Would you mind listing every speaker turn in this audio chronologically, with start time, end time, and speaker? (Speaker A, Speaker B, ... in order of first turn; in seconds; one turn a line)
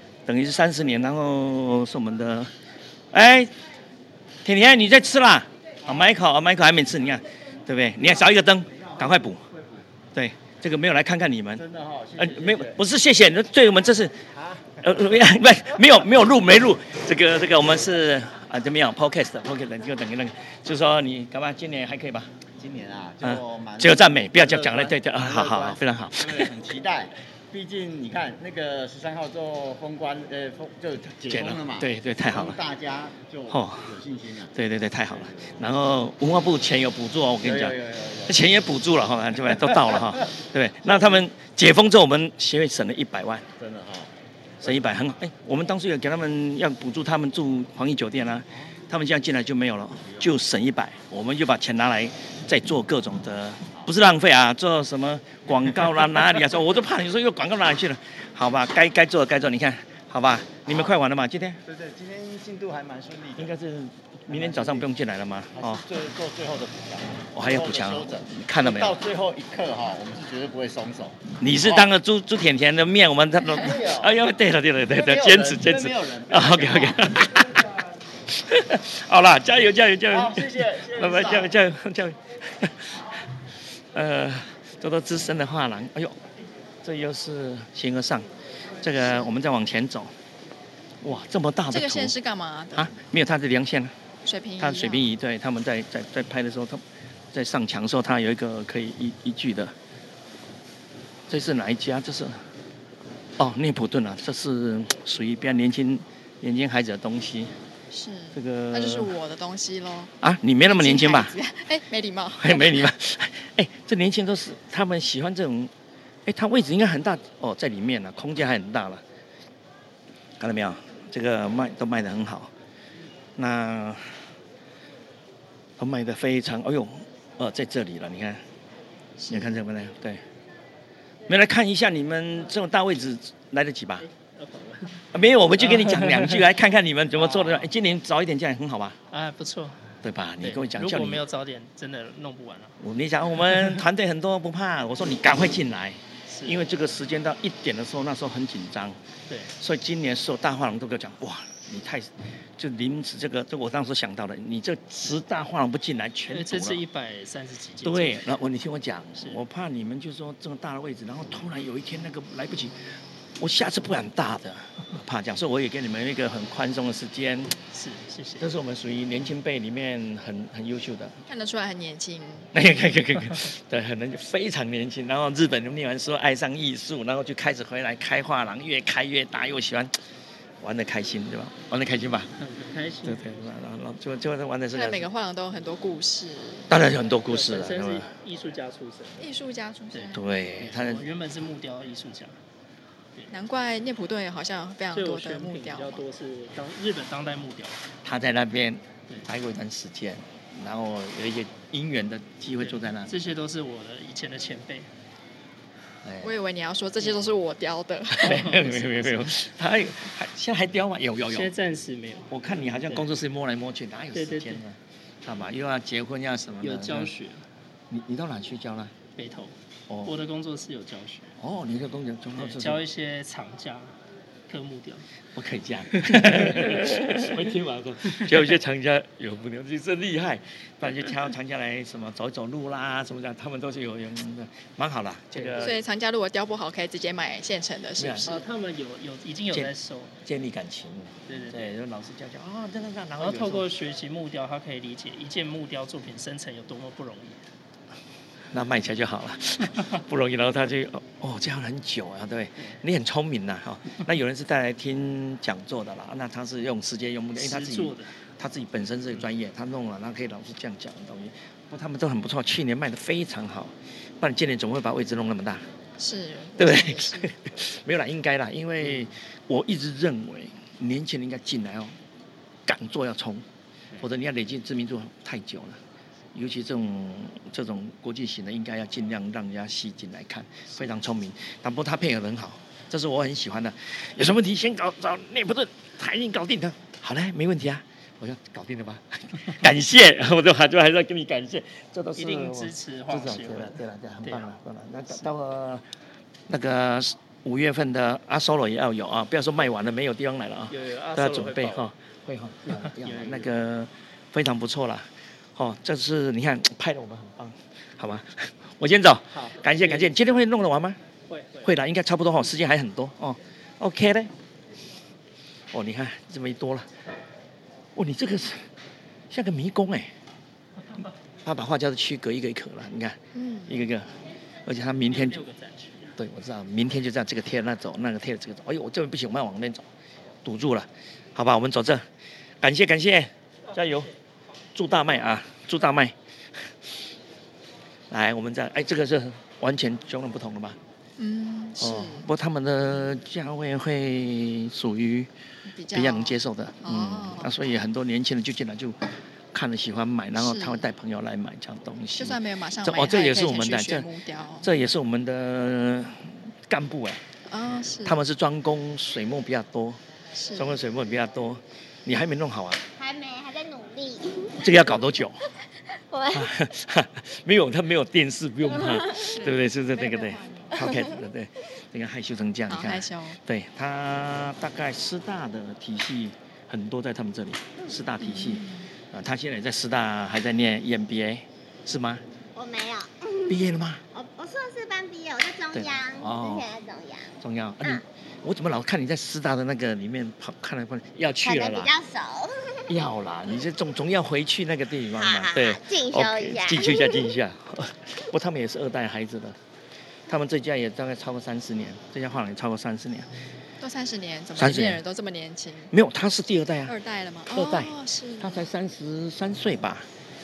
Speaker A: 0.2-2.5
Speaker A: 3.1-3.5
Speaker A: 4.4-9.4
Speaker B: 8.8-9.8
Speaker A: 10.1-11.6
Speaker B: 11.5-12.8
Speaker A: 12.2-14.2
Speaker B: 14.3-14.7
Speaker A: 14.8-22.3
Speaker B: 22.6-34.5
Speaker A: 23.2-26.5
Speaker A: 31.3-32.6
Speaker A: 33.5-34.0
Speaker A: 34.5-43.5
Speaker B: 35.1-35.6
Speaker B: 37.4-38.5
Speaker B: 39.7-40.2
Speaker B: 40.8-41.2
Speaker B: 43.6-44.1
Speaker B: 44.6-44.9
Speaker A: 44.6-61.6
Speaker B: 61.6-63.5
Speaker A: 63.4-65.8
Speaker B: 64.3-64.9
Speaker B: 65.5-71.9
Speaker A: 67.3-69.0
Speaker A: 71.4-77.5
Speaker B: 73.6-74.1
Speaker B: 74.9-77.2
Speaker A: 78.3-83.0
Speaker B: 80.1-81.5
Speaker A: 83.9-86.2
Speaker A: 86.8-88.3
Speaker A: 88.8-90.1
Speaker C: 89.0-89.3
Speaker A: 91.0-92.1
Speaker C: 91.7-92.9
Speaker A: 92.7-93.9
Speaker C: 94.2-95.1
Speaker A: 94.6-99.7
Speaker A: 101.3-102.4
Speaker A: 103.4-107.5
Speaker C: 107.9-110.1
Speaker A: 108.3-109.1
Speaker A: 110.2-111.3
Speaker C: 110.7-112.8
Speaker A: 112.4-115.7
Speaker A: 116.2-119.0
Speaker A: 120.4-122.5
Speaker A: 123.3-124.3
Speaker A: 125.8-128.4
Speaker C: 129.2-129.6
Speaker A: 129.3-130.2
Speaker A: 131.3-134.1
Speaker D: 134.0-135.0
Speaker A: 135.1-139.0
Speaker D: 135.7-136.4
Speaker D: 137.2-137.7
Speaker D: 139.1-139.8
Speaker A: 140.0-141.2
Speaker D: 140.4-142.8
Speaker A: 142.8-149.0
Speaker D: 146.3-146.6
Speaker D: 149.3-149.5
Speaker A: 149.6-156.8
Speaker D: 156.3-158.2
Speaker A: 157.8-167.5
Speaker D: 167.7-168.5
Speaker A: 168.4-171.2
Speaker C: 171.3-172.5
Speaker A: 172.5-179.9
Speaker A: 180.6-182.3
Speaker D: 182.4-183.2
Speaker A: 183.0-185.1
Speaker C: 184.7-186.7
Speaker A: 186.7-188.1
Speaker D: 187.3-189.3
Speaker C: 189.2-190.3
Speaker D: 189.9-192.3
Speaker A: 190.1-191.1
Speaker C: 193.3-196.0
Speaker D: 194.9-197.8
Speaker A: 198.0-203.1
Speaker D: 202.6-204.9
Speaker A: 206.0-206.3
Speaker C: 206.2-208.6
Speaker A: 208.1-211.5
Speaker D: 208.2-209.3
Speaker D: 211.2-213.1
Speaker A: 212.3-217.1
Speaker D: 214.1-214.6
Speaker D: 216.6-217.4
Speaker A: 217.9-218.9
Speaker D: 219.2-221.3
Speaker A: 219.9-220.2
Speaker A: 221.4-222.8
Speaker D: 222.3-223.9
Speaker D: 224.5-225.0
Speaker A: 225.3-235.8
Speaker D: 226.0-228.4
Speaker D: 235.3-235.7
Speaker C: 235.6-238.4
Speaker A: 238.0-238.3
Speaker D: 238.2-240.1
Speaker A: 240.2-243.7
Speaker D: 241.3-241.7
Speaker D: 243.2-247.4
Speaker A: 248.5-265.6
Speaker D: 257.4-258.1
Speaker C: 266.0-267.3
Speaker A: 266.6-271.9
Speaker A: 272.6-273.4
Speaker A: 274.0-275.8
Speaker A: 276.3-295.8
Speaker D: 292.2-294.5
Speaker A: 296.5-311.0
Speaker D: 300.7-301.9
Speaker D: 302.7-303.5
Speaker D: 309.3-310.4
Speaker D: 311.3-311.7
Speaker A: 311.6-314.3
Speaker A: 315.7-316.9
Speaker A: 317.9-318.6
Speaker A: 319.3-320.1
Speaker A: 321.4-324.1
Speaker C: 323.3-323.7
Speaker A: 324.6-325.4
Speaker D: 325.1-326.1
Speaker A: 326.1-329.9
Speaker A: 330.4-332.0
Speaker A: 332.6-334.1
Speaker A: 334.7-336.1
Speaker A: 338.1-340.8
Speaker C: 341.2-342.2
Speaker A: 341.8-345.3
Speaker C: 345.7-347.5
Speaker A: 345.9-349.0
Speaker A: 349.5-354.1
Speaker C: 350.4-350.9
Speaker C: 352.2-354.7
Speaker A: 354.6-357.2
Speaker C: 357.5-358.2
Speaker A: 358.0-360.0
Speaker C: 360.3-360.8
Speaker A: 360.5-362.8
Speaker E: 362.9-364.8
Speaker A: 364.6-365.4
Speaker E: 365.9-366.5
Speaker A: 366.3-382.2
Speaker E: 368.7-369.1
Speaker C: 369.2-370.7
Speaker E: 370.8-371.1
Speaker C: 372.7-373.4
Speaker C: 378.2-378.9
Speaker E: 382.5-388.0
Speaker A: 383.5-384.0
Speaker A: 385.7-386.7
Speaker A: 387.4-391.9
Speaker E: 391.4-393.0
Speaker A: 392.9-399.6
Speaker E: 395.1-397.3
Speaker A: 400.3-403.3
Speaker C: 403.8-405.9
Speaker A: 404.6-405.0
Speaker A: 405.9-406.9
Speaker C: 406.9-408.6
Speaker A: 407.5-410.1